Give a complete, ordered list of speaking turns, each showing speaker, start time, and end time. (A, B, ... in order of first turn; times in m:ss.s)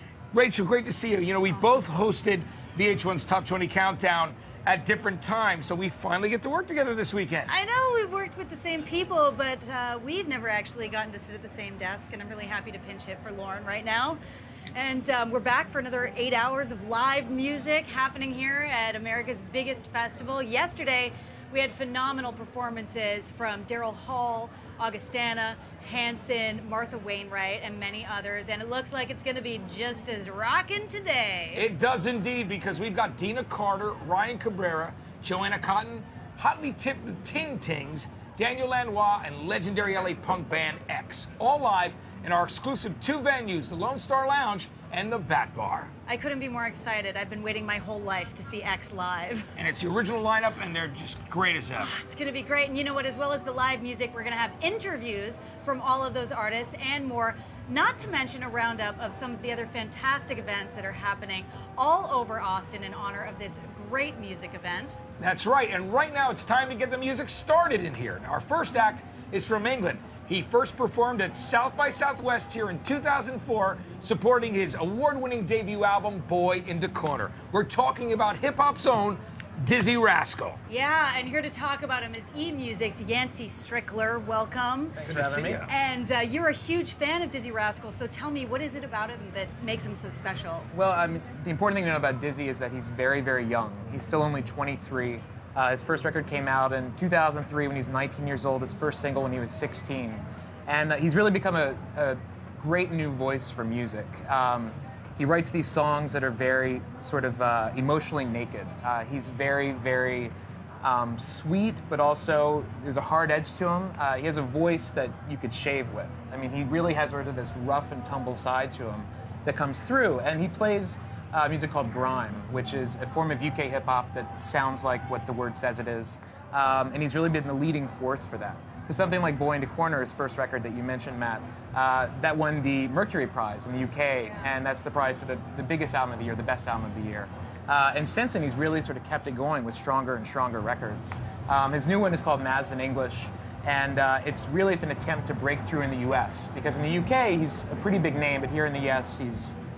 0:00.3-0:07.5 A
0:07.5-0:14.2 B
0:14.7-0:31.7 B
0:31.6-0:45.9 A
0:46.1-0:49.5 B
0:49.6-0:51.9 A
0:51.8-1:05.0 B
1:05.2-1:20.6 A
1:20.7-1:25.0 B
1:25.0-1:25.7 C
1:25.1-1:25.7 A
1:25.6-1:30.7 B
1:30.7-2:29.6 C